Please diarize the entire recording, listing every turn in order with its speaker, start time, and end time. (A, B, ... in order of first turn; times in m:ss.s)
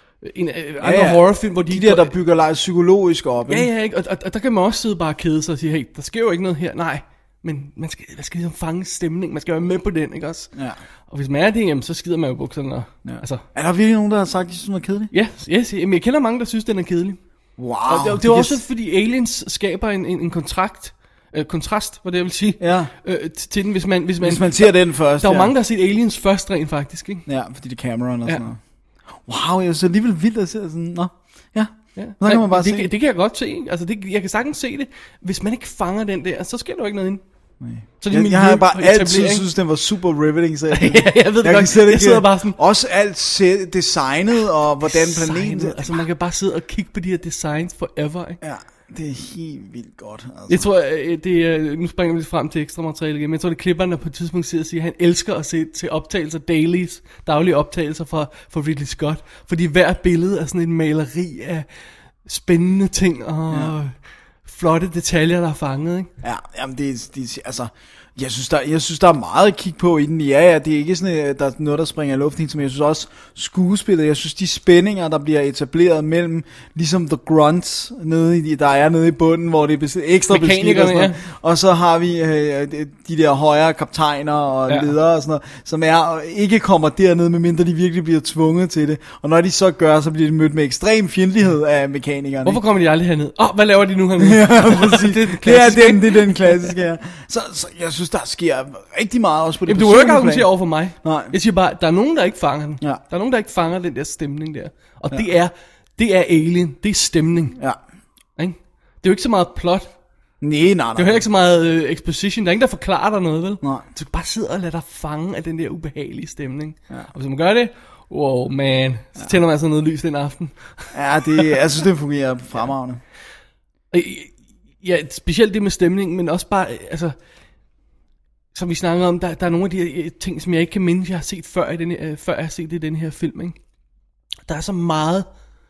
0:00.2-0:02.1 A
0:00.8-0:03.7 B
0:03.5-0:10.5 A
0:10.5-0:10.8 B
0:11.1-0:13.4 A
0:13.0-0:15.1 B
0:15.1-0:17.2 A
0:17.6-0:18.6 B
0:17.9-0:27.2 A
0:22.6-0:22.9 B
0:24.2-0:25.5 B
0:27.3-0:28.6 B
0:29.1-0:32.9 B
0:32.0-0:37.2 A
0:37.6-0:46.0 B
0:38.0-0:39.4 A
0:40.7-0:42.6 A
0:44.9-0:48.4 A
0:48.4-0:50.7 B
0:50.5-1:01.7 A
1:02.2-1:06.1 A
1:06.2-1:32.6 B
1:20.3-1:21.2 A
1:32.4-1:36.7 A
1:34.2-1:41.4 B
1:39.7-1:47.6 A
1:48.4-1:49.9 A
1:50.4-1:51.2 B
1:51.0-2:01.5 A
2:00.9-2:03.0 B
2:03.9-2:07.2 A
2:08.5-2:13.6 A
2:14.5-2:15.3 A